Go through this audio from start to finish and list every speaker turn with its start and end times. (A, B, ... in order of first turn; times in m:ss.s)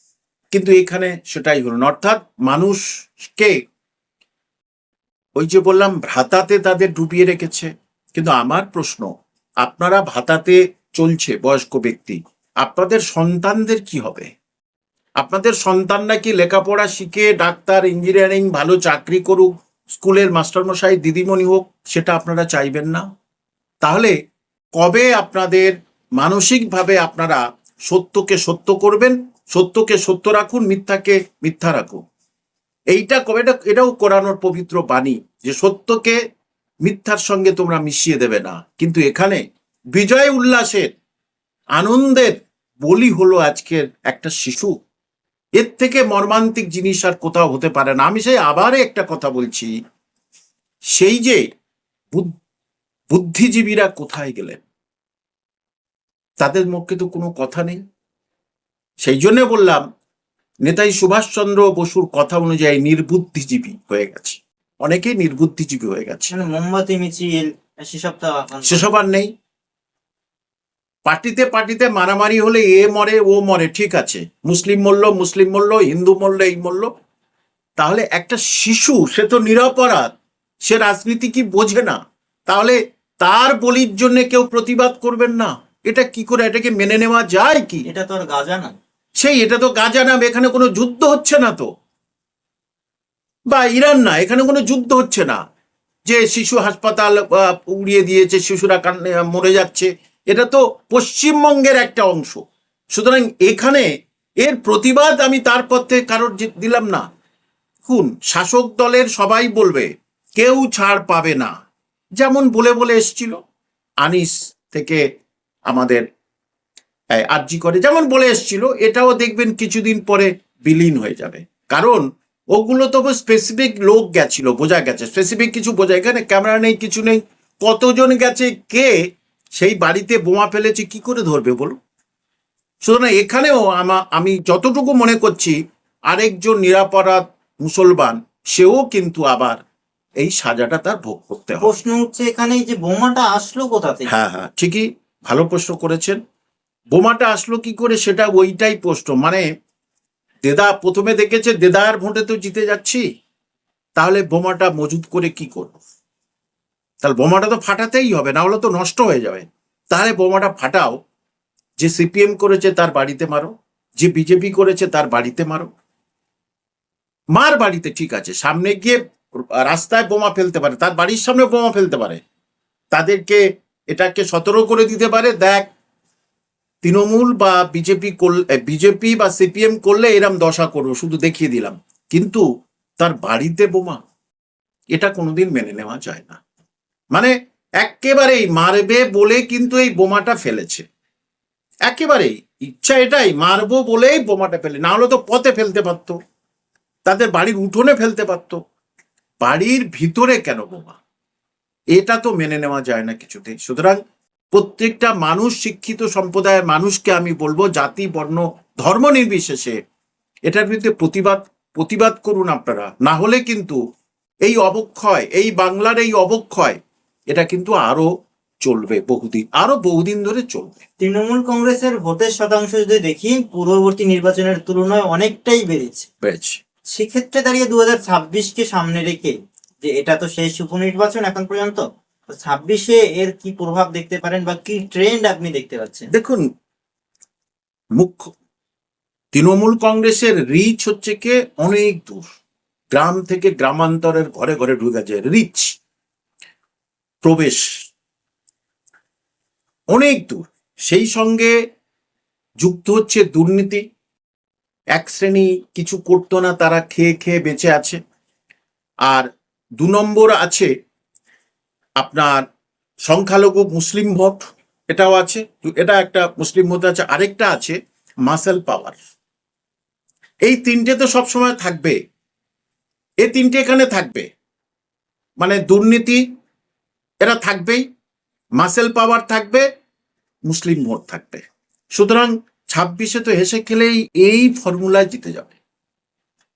0:00.5-0:03.6 A
0:05.4-0:09.1 A
0:09.6-0:14.3 A
0:15.2-0:23.0 A
0:23.8-0:24.1 A
0:24.8-0:32.0 A
0:32.9-0:36.2 A
0:36.8-0:39.4 A
0:39.9-0:40.9 A
0:41.8-0:44.8 A
0:45.6-0:49.7 A
0:51.0-0:51.4 A
0:53.1-0:54.6 A
0:56.4-0:57.8 A
0:59.0-0:59.8 A
1:00.6-1:06.3 A
1:06.3-1:08.9 B
1:08.6-1:09.3 A
1:11.1-1:16.9 A
1:17.8-1:20.1 A
1:20.6-1:27.8 A
1:27.8-1:28.8 B
1:29.2-1:31.6 A
1:33.5-1:35.4 A
1:36.1-1:43.9 A
1:44.4-1:47.1 A
1:47.8-1:51.5 A
1:52.2-1:53.4 A
1:54.0-1:55.0 A
1:55.7-1:56.0 A
1:57.1-2:09.0 A
2:09.6-2:11.8 A
2:12.8-2:15.6 A
2:16.1-2:19.6 A
2:20.2-2:21.8 A
2:21.6-2:24.1 B
2:24.1-2:26.2 A
2:26.9-2:29.4 A
2:30.4-2:33.0 A
2:34.0-2:35.8 A
2:37.0-2:41.0 A
2:41.8-2:45.7 A
2:47.3-2:52.2 A
2:52.9-2:55.7 A
2:56.8-3:02.4 A
3:03.0-3:04.0 A
3:04.9-3:06.4 A
3:07.1-3:10.8 A
3:11.8-3:16.2 A
3:17.1-3:18.6 A
3:19.4-3:21.0 A
3:21.9-3:24.0 A
3:24.5-3:29.8 A
3:30.5-3:33.8 A
3:34.4-3:36.8 A
3:37.3-3:38.1 A
3:38.6-3:40.8 A
3:41.0-3:46.1 B
3:46.2-3:46.6 A
3:46.9-3:56.1 B
3:56.1-3:56.4 A
3:58.0-3:58.3 A
3:59.3-4:02.3 A
4:02.9-4:05.7 A
4:07.2-4:07.6 A
4:09.9-4:11.5 A
4:12.6-4:13.8 A
4:15.0-4:18.0 A
4:19.8-4:20.7 A
4:22.0-4:22.4 A
4:23.0-4:29.0 A
4:30.4-4:32.0 A
4:33.2-4:34.3 A
4:35.4-4:36.2 A
4:37.2-4:37.8 A
4:38.6-4:39.6 A
4:40.5-4:41.4 A
4:42.0-4:45.6 A